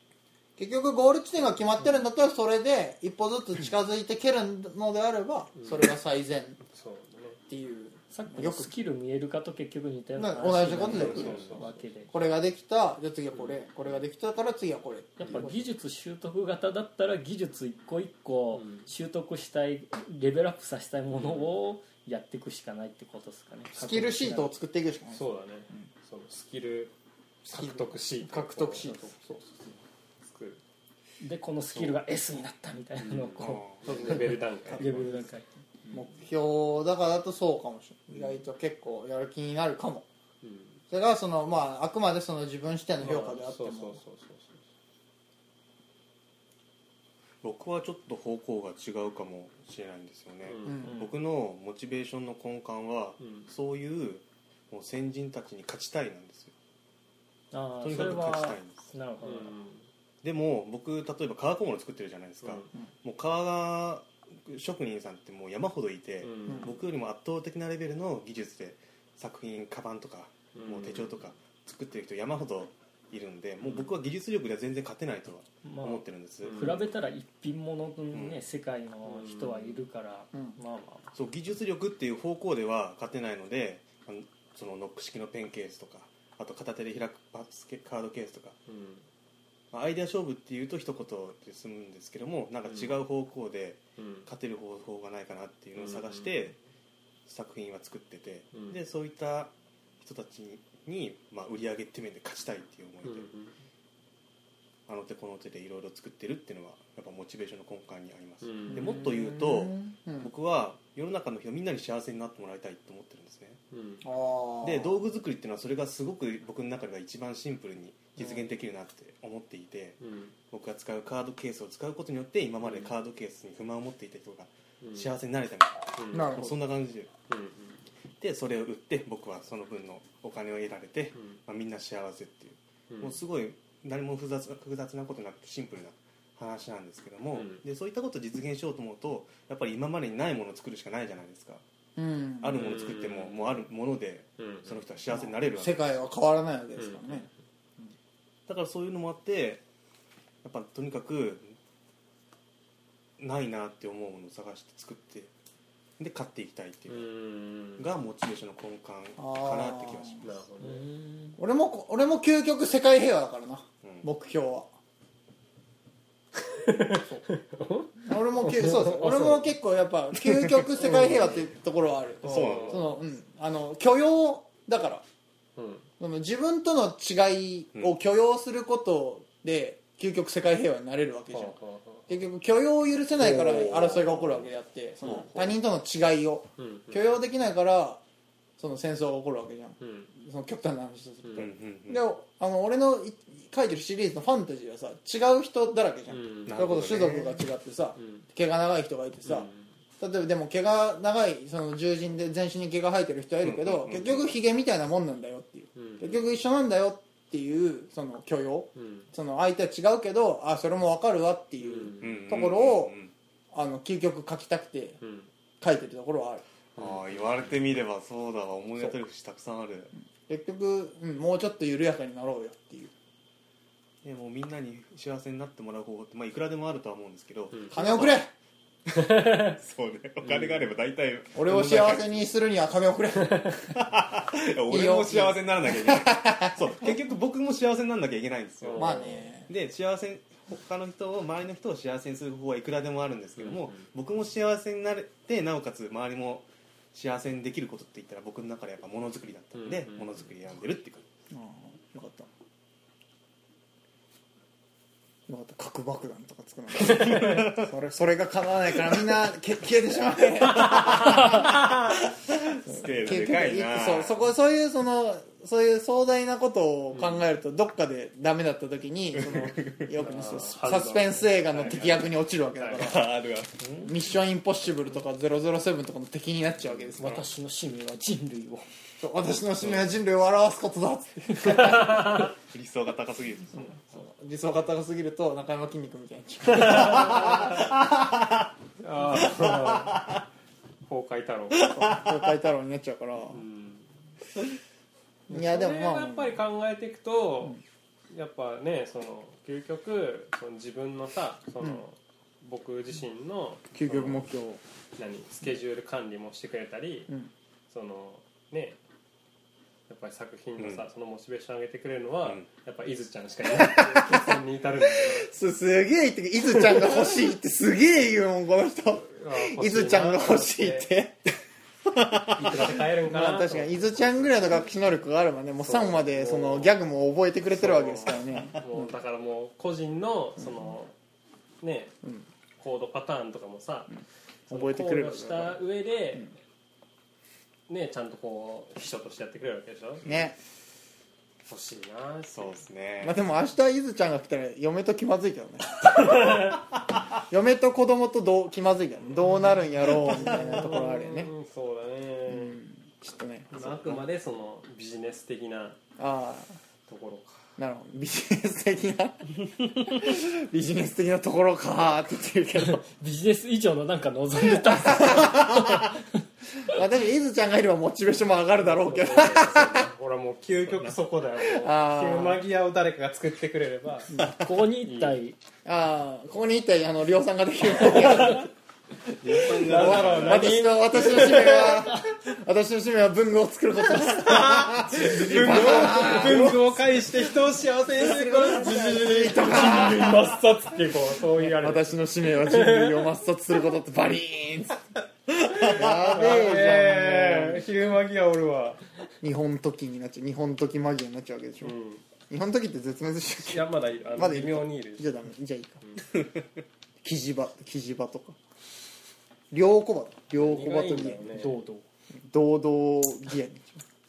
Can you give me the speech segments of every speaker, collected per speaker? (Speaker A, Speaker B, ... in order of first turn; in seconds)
Speaker A: 0.6-6.6, 7.5-8.7, 10.2-11.5, 12.1-15.6, 23.7-25.8, 27.5-29.1, 34.7-35.2, 35.9-40.0, 40.9-44.0, 50.6-51.0, 66.5-66.7, 108.7-110.3, 114.0-115.0, 126.1-126.6, 141.9-142.6, 145.1-147.3, 159.2-160.2, 161.4-164.7, 168.0-175.0, 176.0-181.6, 182.1-188.0, 188.6-199.5, 200.0-212.9, 213.5-215.0, 215.6-216.4, 220.3-222.9, 227.7-228.3, 231.3-233.7, 234.7-236.6, 238.8-239.5, 251.3-252.3, 255.3-261.6, 262.6-273.1, 273.8-277.3, 279.0-282.2, 283.5-287.7, 291.7-293.4, 295.3-296.4, 303.7-304.6, 313.5-321.1, 322.4-328.9, 330.4-330.7, 334.5-335.6, 340.0-340.4, 343.0-346.4, 347.3-351.3, 352.3-354.0, 356.0-356.5, 357.6-362.8, 364.5-365.7, 366.6-369.9, 371.4-372.4, 375.6-378.5, 379.4-386.6, 387.9-390.3, 391.4-394.9, 395.6-397.6, 399.2-401.7, 402.3-405.8, 407.0-408.4, 409.5-411.3, 412.2-413.8
Speaker B: 5.5-5.9, 6.6-7.4, 10.7-11.8, 13.3-13.6, 18.5-18.9, 21.1-21.5, 25.1-30.6, 33.0-35.1, 40.4-40.8, 43.0-44.6, 50.4-50.9, 53.2-53.5, 59.2-59.8, 62.4-62.7, 66.2-66.7, 70.5-71.1, 73.6-73.9, 76.4-76.8, 79.0-79.8, 88.7-89.0, 92.6-93.0, 94.0-94.3, 95.7-96.5, 98.5-98.8, 103.0-103.5, 108.4-109.0, 113.7-114.0, 120.0-120.3, 122.6-122.9, 124.8-125.1, 126.0-126.3, 127.3-127.8, 131.1-131.4, 132.9-133.2, 137.3-137.6, 142.5-143.4, 144.4-144.8, 146.8-147.3, 156.9-157.9, 160.2-160.8, 166.3-169.5, 170.8-171.3, 172.2-172.9, 175.6-175.9, 181.3-182.1, 183.2-184.1, 185.0-185.5, 186.6-187.1, 189.8-190.1, 191.2-191.5, 196.1-196.9, 197.9-198.3, 199.2-199.7, 205.8-206.2, 208.7-209.1, 211.6-212.3, 215.0-215.3, 216.8-217.5, 228.9-229.6, 230.2-230.6, 233.2-233.6, 238.6-239.3, 243.4-243.9, 249.5-250.3, 256.8-257.4, 260.5-261.9, 266.9-267.2, 270.0-272.0, 272.6-272.9, 281.3-282.3, 286.4-287.6, 288.8-290.0, 290.9-291.7, 293.3-293.9, 295.3-297.6, 298.1-304.3, 305.0-307.1, 307.7-308.8, 309.9-315.3, 316.5-317.2, 319.0-320.9, 322.4-324.4, 325.6-326.7, 327.5-330.9, 331.6-331.9, 332.6-334.0, 334.5-336.3, 337.7-340.0, 341.4-342.6, 345.8-346.6, 349.2-352.6, 353.5-355.8, 356.9-357.5, 368.6-374.1, 374.8-375.2, 377.9-378.4, 379.2-381.9, 384.2-393.1, 395.4-398.8, 401.6-402.0, 403.4-405.2, 410.4-411.6
Speaker C: 8.1-12.1, 15.2-24.5, 31.2-35.5, 57.5-59.5, 75.6-81.0, 160.6-161.4, 277.0-278.6, 362.6-366.0, 374.4-375.4, 411.3-411.8
Speaker D: 33.4-34.0, 47.4-56.5, 57.8-58.9, 60.2-76.8, 78.1-78.4, 81.1-88.5, 89.7-96.5, 97.2-103.3, 104.9-113.6, 114.6-120.0, 120.5-127.1, 128.2-141.6, 142.4-146.0, 148.5-149.6, 150.4-151.5, 153.2-155.3, 156.0-157.1, 157.8-160.4, 163.8-164.1, 170.2-171.2, 172.2-172.9, 183.6-184.2, 191.3-192.0, 196.4-197.3, 203.4-204.3, 212.0-213.1, 216.8-219.9, 224.0-228.2, 228.9-232.1, 233.7-251.1, 256.8-257.7, 260.5-264.2, 269.1-269.9, 271.5-272.1, 272.7-273.7, 277.0-277.2, 282.4-283.8, 286.8-288.3, 289.0-290.2, 291.5-292.2, 310.6-310.8, 322.0-322.7, 340.0-340.3, 342.3-343.2, 379.2-381.6, 384.6-386.8, 395.4-396.1, 406.1-406.4